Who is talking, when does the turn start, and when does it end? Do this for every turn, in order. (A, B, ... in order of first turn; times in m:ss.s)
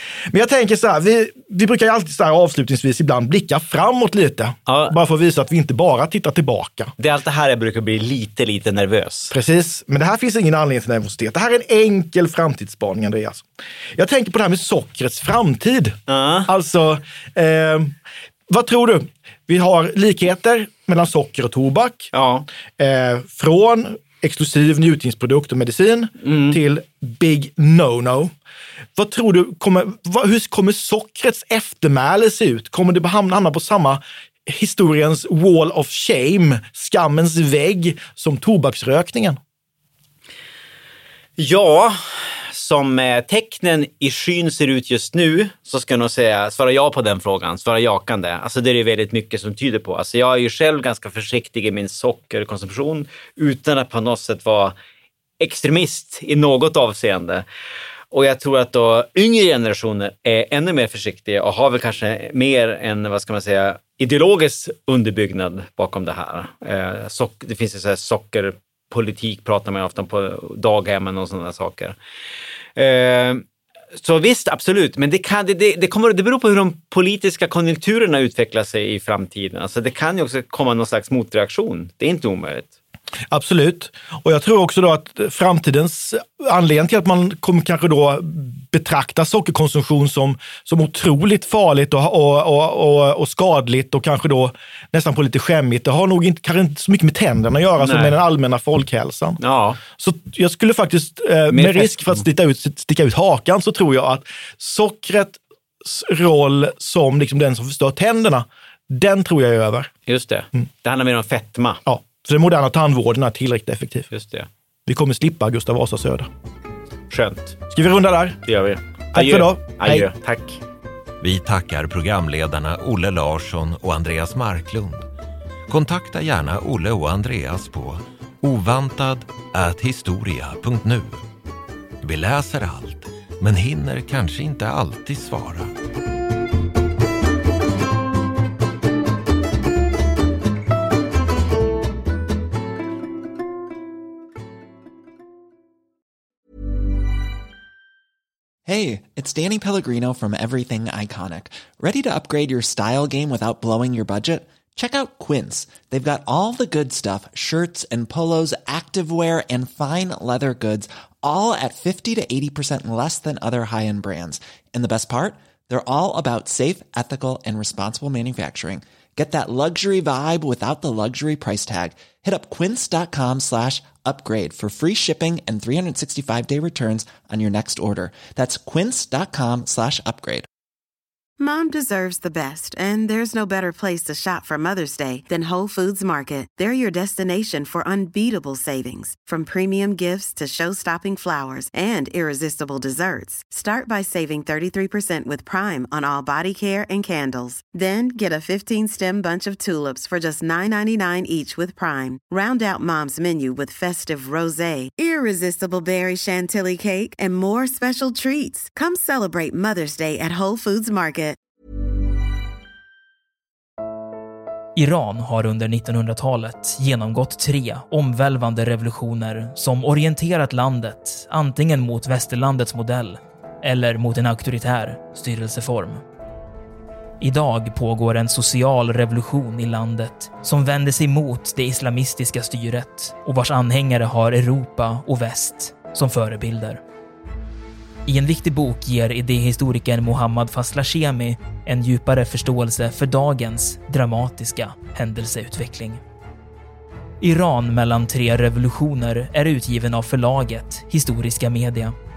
0:00.3-0:06.9 A
0:04.7-0:05.0 B
0:07.0-0:09.4 B
0:09.3-0:13.4 A
0:14.0-0:18.0 A
0:16.1-0:16.5 B
0:18.5-0:22.1 A
0:22.1-0:22.5 B
0:22.8-0:28.3 A
0:26.2-0:26.6 B
0:29.0-0:39.4 A
0:41.4-0:42.0 B
0:42.5-0:54.7 B
0:55.4-0:57.4 B
0:58.1-1:12.0 B
1:12.8-1:13.4 B
1:14.0-1:22.7 B
1:23.3-1:39.4 A
1:37.8-1:38.2 B
1:39.4-1:39.8 B
1:40.0-1:49.9 A
1:41.5-1:42.2 B
1:50.1-1:51.8 B
1:51.9-1:54.1 A
1:54.1-1:54.5 B
1:54.9-1:56.3 A
1:57.1-1:57.6 B
1:57.7-1:58.4 A
1:58.5-2:00.6 B
1:59.1-2:00.1 A
2:01.2-2:05.1 C
2:05.7-2:11.2 C
2:12.0-2:15.7 C
2:28.7-3:00.5 D
3:01.4-3:31.4 E
3:34.8-3:46.0 F
3:47.2-3:56.8 F
3:58.1-4:06.0 F
4:07.2-4:12.0 F